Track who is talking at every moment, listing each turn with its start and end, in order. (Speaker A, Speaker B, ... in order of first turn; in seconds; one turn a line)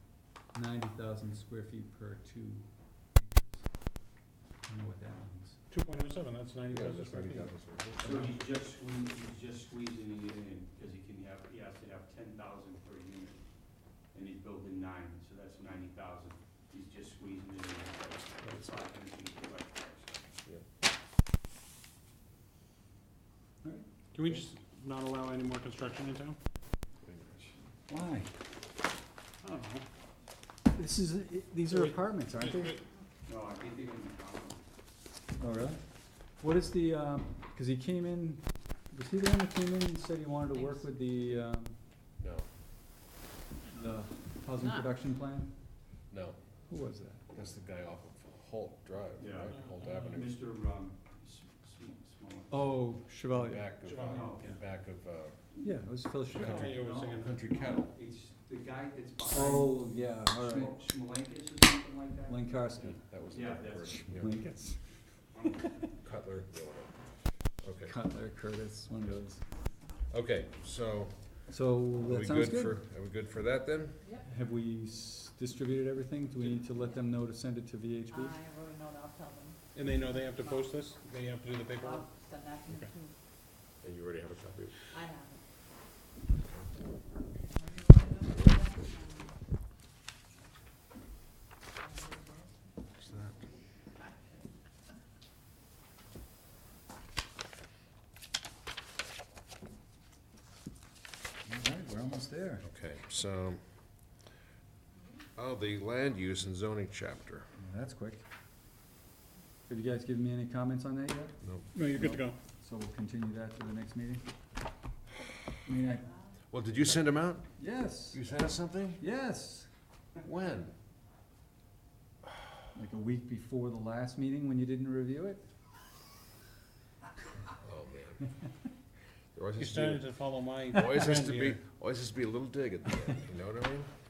Speaker A: 0.5-3.7
Speaker A: 4.7-5.6
Speaker B: 5.7-7.5
Speaker C: 6.7-8.4
Speaker D: 8.1-13.3
Speaker D: 14.1-20.3
Speaker A: 18.4-18.8
Speaker B: 24.1-26.4
Speaker C: 27.0-27.5
Speaker A: 27.9-28.3
Speaker B: 29.4-29.8
Speaker A: 30.7-32.8
Speaker B: 31.7-32.8
Speaker D: 33.3-34.5
Speaker A: 35.4-35.8
Speaker A: 36.4-41.8
Speaker C: 42.2-42.5
Speaker A: 43.7-45.5
Speaker C: 46.1-46.4
Speaker A: 46.7-47.2
Speaker C: 47.3-50.4
Speaker D: 50.3-52.5
Speaker A: 52.5-53.7
Speaker C: 53.3-55.4
Speaker B: 53.8-54.5
Speaker A: 55.6-57.0
Speaker B: 56.3-57.4
Speaker C: 56.3-58.0
Speaker D: 58.0-59.4
Speaker A: 59.2-60.9
Speaker D: 60.5-62.3
Speaker A: 62.3-63.0
Speaker C: 62.8-64.4
Speaker A: 63.9-64.8
Speaker C: 66.0-66.9
Speaker C: 67.6-67.9
Speaker A: 67.8-69.4
Speaker C: 70.1-71.4
Speaker A: 71.5-72.8
Speaker C: 72.0-74.0
Speaker A: 74.2-78.4
Speaker E: 78.1-80.5
Speaker B: 79.7-82.1
Speaker E: 81.8-83.1
Speaker B: 82.7-82.9
Speaker C: 83.8-84.9
Speaker E: 84.9-85.4
Speaker C: 86.3-86.7
Speaker E: 87.5-89.0
Speaker C: 93.0-93.4
Speaker A: 101.5-102.7
Speaker C: 102.6-103.6
Speaker C: 105.3-107.5
Speaker A: 107.5-108.2
Speaker A: 109.7-114.2
Speaker B: 111.7-112.4
Speaker A: 115.6-116.1
Speaker C: 116.5-119.0
Speaker A: 117.6-118.2
Speaker A: 119.0-119.7
Speaker C: 120.2-120.7
Speaker A: 122.7-125.4
Speaker C: 127.6-128.2
Speaker C: 129.3-130.1
Speaker B: 129.6-131.6
Speaker C: 130.7-133.9